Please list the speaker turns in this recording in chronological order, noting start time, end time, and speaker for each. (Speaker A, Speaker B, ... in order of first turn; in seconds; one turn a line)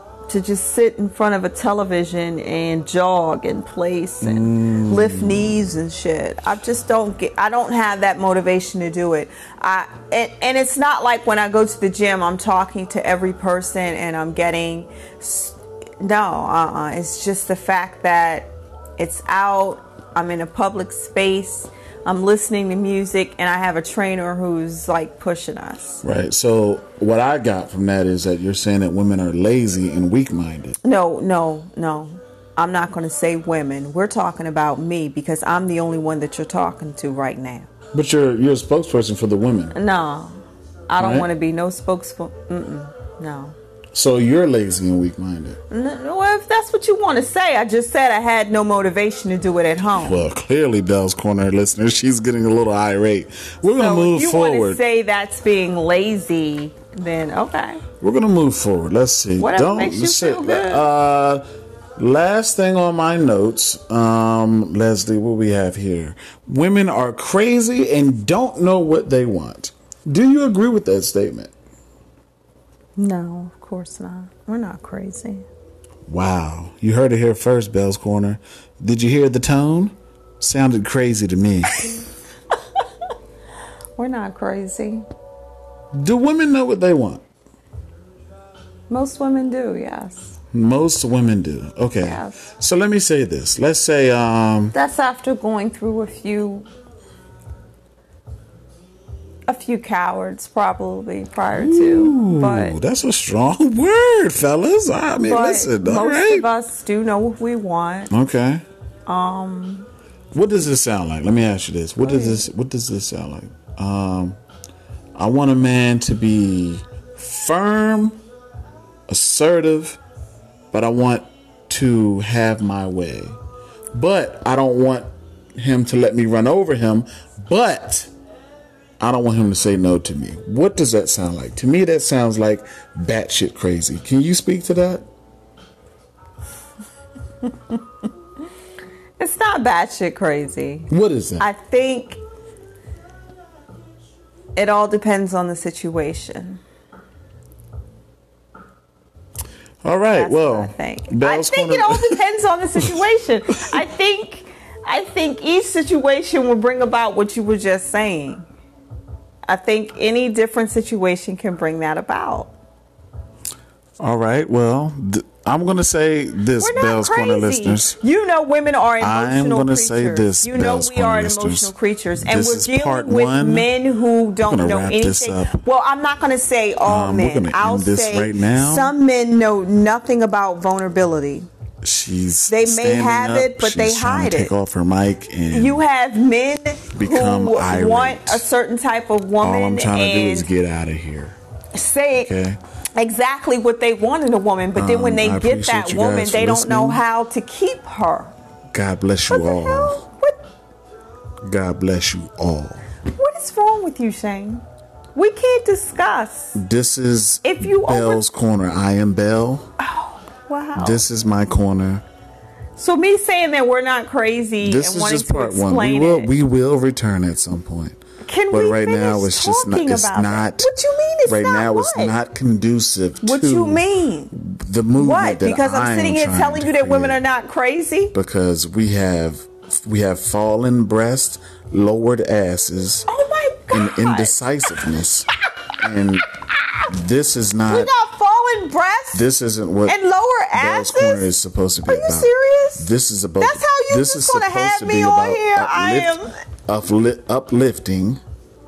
Speaker A: 0.3-26.0
Speaker B: 4.2-5.6
Speaker B: 26.0-30.8
Speaker A: 30.8-37.7
Speaker B: 37.9-39.8
Speaker A: 39.7-40.4
Speaker A: 40.9-43.5
Speaker B: 41.0-41.3
Speaker B: 43.9-45.6
Speaker A: 45.7-50.2
Speaker B: 49.9-54.8
Speaker A: 53.8-57.8
Speaker B: 58.0-61.5
Speaker A: 59.4-60.9
Speaker B: 62.0-71.5
Speaker A: 73.0-75.5
Speaker B: 76.1-81.9
Speaker A: 84.0-85.0
Speaker B: 85.9-87.2
Speaker A: 88.9-90.4
Speaker B: 90.5-94.8
Speaker A: 92.0-92.4
Speaker A: 94.7-96.7
Speaker A: 99.5-102.8
Speaker B: 101.5-106.5
Speaker A: 105.2-108.1
Speaker B: 108.1-108.6
Speaker A: 109.1-109.9
Speaker B: 110.3-114.4
Speaker A: 112.0-112.4
Speaker B: 115.2-118.2
Speaker B: 119.1-120.0
Speaker B: 120.7-123.4
Speaker B: 123.9-128.1
Speaker B: 129.0-135.1
Speaker A: 139.2-142.2
Speaker B: 140.9-141.5
Speaker A: 144.6-146.6
Speaker B: 149.8-152.2
Speaker A: 150.1-158.5
Speaker A: 159.5-162.5
Speaker B: 164.0-168.0
Speaker A: 166.6-181.5
Speaker B: 169.0-173.7
Speaker B: 174.5-175.6
Speaker B: 176.8-178.9
Speaker B: 181.8-185.8
Speaker A: 182.5-184.5
Speaker A: 185.5-190.5
Speaker B: 187.0-188.4
Speaker B: 189.4-191.4
Speaker A: 191.7-192.3
Speaker B: 192.2-192.6
Speaker A: 193.0-198.3
Speaker B: 194.8-197.0
Speaker B: 198.7-200.1
Speaker A: 199.3-200.4
Speaker B: 201.4-202.8
Speaker A: 203.1-204.6
Speaker A: 205.2-206.6
Speaker B: 206.6-209.7
Speaker A: 207.4-208.2
Speaker A: 209.8-211.0
Speaker B: 210.8-212.0
Speaker A: 212.8-216.3
Speaker B: 214.6-218.0
Speaker A: 218.3-222.1
Speaker B: 218.5-220.7
Speaker B: 221.3-227.2
Speaker A: 223.2-224.4
Speaker A: 225.0-228.2
Speaker B: 228.1-233.1
Speaker A: 233.1-234.3
Speaker B: 233.7-235.3
Speaker B: 235.8-236.3
Speaker B: 236.9-237.9
Speaker A: 237.7-239.2
Speaker B: 239.1-240.0
Speaker A: 239.9-241.3
Speaker B: 240.5-248.2
Speaker A: 241.9-242.9
Speaker A: 243.4-246.3